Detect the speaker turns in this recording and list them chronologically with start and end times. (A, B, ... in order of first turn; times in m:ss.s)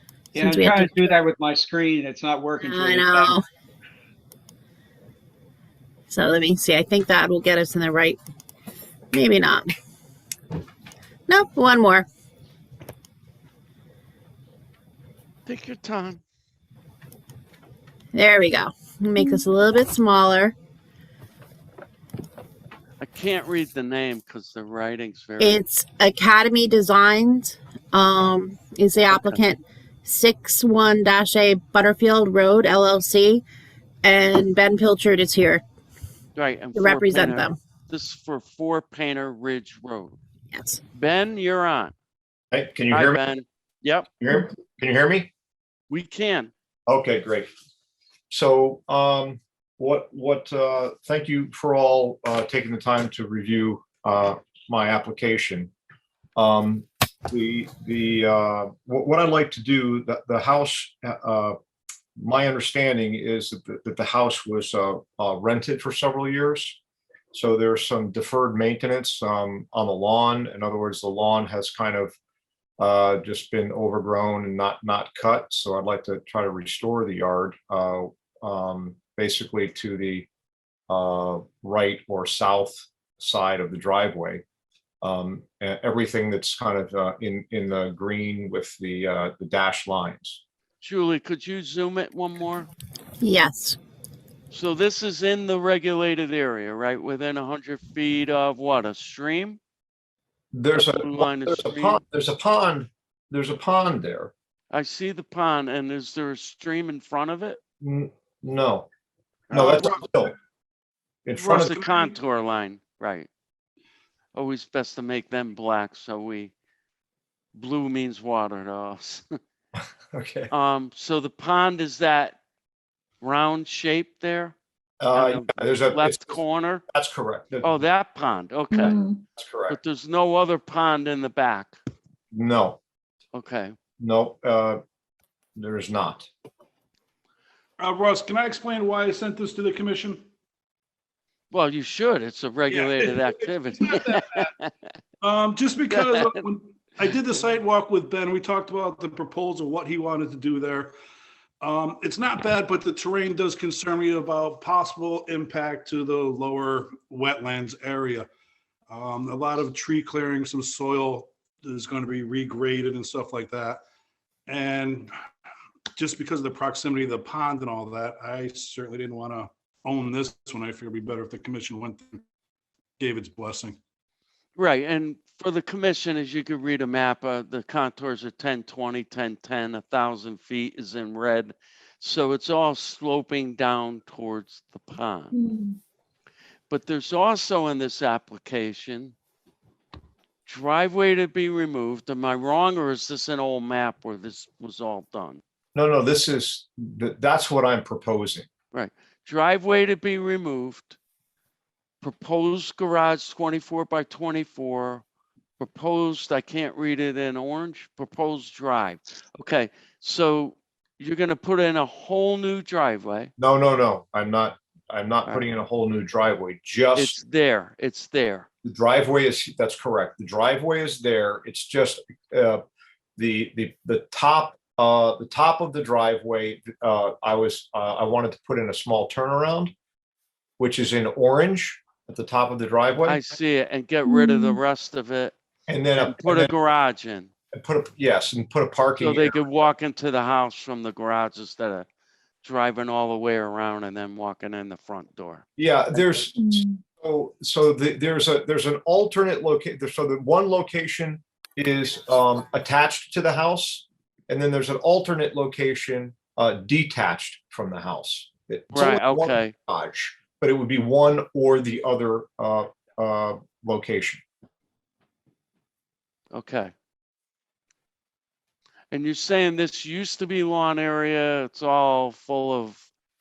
0:00.3-0:03.3 A
0:00.4-0:01.2 B
0:02.6-0:03.4 B
0:06.1-0:08.2 B
0:09.1-0:09.7 B
0:11.3-0:12.0 B
0:15.4-0:16.2 C
0:18.1-0:20.5 B
0:23.0-0:25.6 C
0:25.4-0:33.4 B
0:29.1-0:29.4 C
0:34.0-0:35.6 B
0:36.4-0:40.2 C
0:36.7-0:37.6 B
0:40.5-0:40.8 B
0:40.9-0:41.9 C
0:42.5-0:43.2 D
0:42.9-0:44.1 C
0:44.2-0:45.3 D
0:45.9-0:46.5 C
0:46.9-0:47.5 D
0:48.3-0:55.7 D
0:56.4-1:01.6 D
1:02.2-1:06.8 D
1:07.3-1:12.1 D
1:12.8-1:20.3 D
1:20.9-1:24.4 D
1:25.0-1:30.4 D
1:30.8-1:32.7 C
1:33.2-1:33.8 B
1:34.5-1:39.6 C
1:40.5-1:44.3 D
1:40.7-1:42.0 C
1:44.7-1:47.6 C
1:47.8-1:48.9 D
1:49.5-1:49.9 C
1:49.5-1:50.3 D
1:51.2-1:51.8 D
1:51.4-1:53.3 C
1:54.3-1:56.5 C
1:57.5-1:59.4 C
2:00.1-2:00.5 D
2:00.5-2:02.4 C
2:03.2-2:04.5 C
2:05.0-2:06.4 D
2:05.1-2:06.8 C
2:06.9-2:07.7 D
2:07.6-2:09.0 C
2:08.7-2:09.2 E
2:09.4-2:09.8 D
2:09.7-2:11.8 C
2:12.3-2:12.8 D
2:13.3-2:13.7 C
2:14.0-2:14.8 D
2:15.6-2:16.3 D
2:17.8-2:20.2 F
2:21.5-2:24.9 C
2:22.7-2:23.2 F
2:25.2-2:30.9 F
2:25.9-2:26.3 C
2:31.6-2:38.3 F
2:38.9-2:43.8 F
2:44.5-2:45.1 F
2:46.0-2:52.2 F
2:53.0-2:53.8 F
2:54.6-3:05.3 C
3:05.3-3:05.8 E
3:06.7-3:09.1 C
3:10.4-3:15.4 C
3:15.7-3:18.5 D
3:18.7-3:21.0 C
3:22.0-3:25.0 C
3:25.6-3:33.3 C
3:33.4-3:37.2 D
3:36.9-3:38.5 C
3:38.6-3:42.6 D
3:43.2-3:49.7 D
3:50.6-3:53.2 D
3:53.0-3:55.3 C
3:54.0-3:54.6 E
3:55.7-3:56.5 D
3:56.0-3:57.3 C
3:57.5-3:59.4 D
3:59.0-4:01.9 C
4:02.4-4:06.3 C
4:05.6-4:24.2 D
4:06.4-4:06.8 E
4:18.7-4:19.5 C
4:26.3-4:26.7 C
4:28.9-4:32.8 C